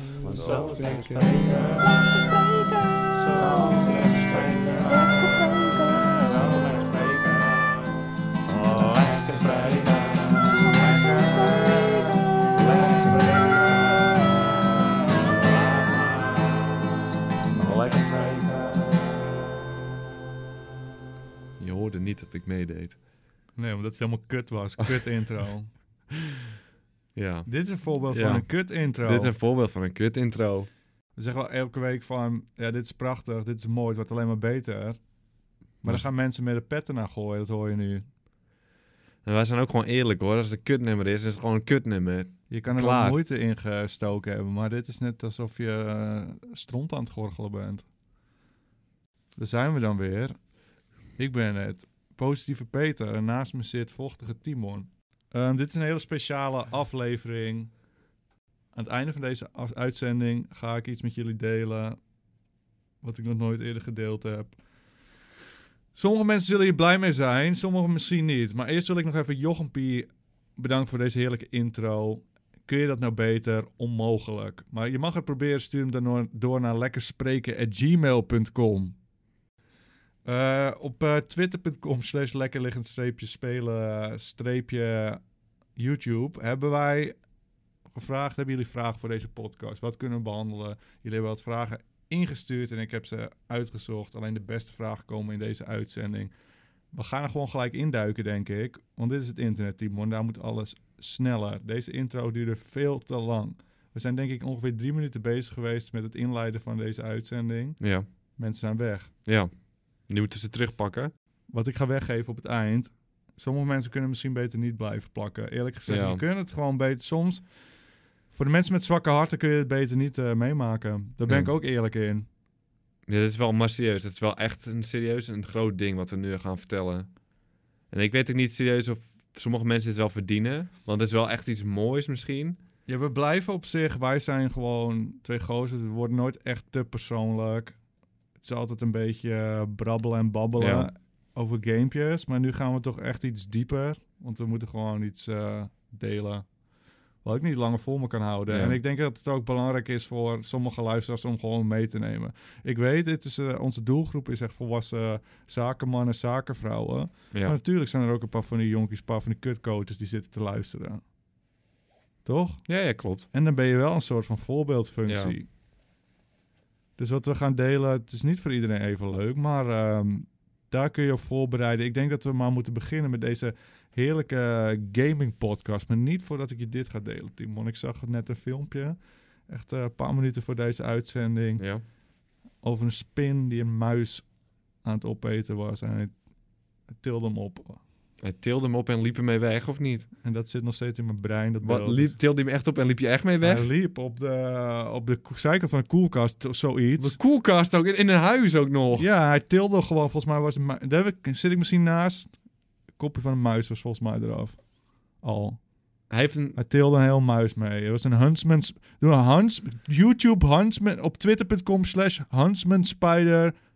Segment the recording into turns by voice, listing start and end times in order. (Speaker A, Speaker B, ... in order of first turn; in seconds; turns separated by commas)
Speaker A: 0.2-2.5, Speaker A: 3.0-7.9, Speaker A: 8.5-14.3, Speaker A: 15.0-16.7, Speaker A: 17.5-19.2, Speaker B: 21.6-23.0, Speaker C: 23.6-25.7, Speaker B: 27.2-27.5, Speaker C: 27.5-29.3, Speaker B: 28.1-28.4, Speaker B: 29.0-30.7, Speaker C: 31.2-35.0, Speaker C: 35.8-38.1, Speaker B: 39.2-43.2, Speaker C: 42.5-47.9, Speaker C: 49.4-50.4, Speaker C: 51.2-57.7, Speaker C: 58.8-62.0, Speaker C: 63.0-64.5, Speaker C: 66.0-79.0, Speaker C: 80.2-85.2, Speaker C: 85.8-87.2, Speaker C: 87.9-96.3, Speaker C: 96.9-107.8, Speaker B: 107.8-108.1, Speaker C: 108.4-109.1, Speaker B: 109.2-109.5, Speaker B: 110.1-111.1, Speaker C: 111.5-117.4, Speaker B: 115.9-116.2, Speaker C: 118.3-122.3, Speaker B: 123.1-127.1, Speaker B: 127.9-132.6, Speaker C: 132.9-137.8, Speaker C: 138.4-146.5, Speaker B: 140.6-140.9, Speaker C: 147.2-161.0, Speaker B: 148.5-148.8, Speaker C: 162.2-162.7, Speaker B: 162.7-163.3, Speaker C: 163.3-165.5, Speaker B: 165.1-165.3, Speaker C: 167.0-179.0, Speaker C: 179.5-181.6, Speaker C: 182.6-184.2, Speaker C: 184.8-186.1, Speaker C: 186.9-187.8, Speaker B: 188.2-190.1, Speaker C: 190.2-192.2, Speaker B: 191.6-193.7, Speaker C: 193.4-197.2, Speaker B: 197.0-199.1, Speaker C: 198.9-202.3, Speaker C: 203.0-204.6, Speaker C: 205.2-205.6, Speaker B: 206.1-206.6, Speaker C: 206.6-213.6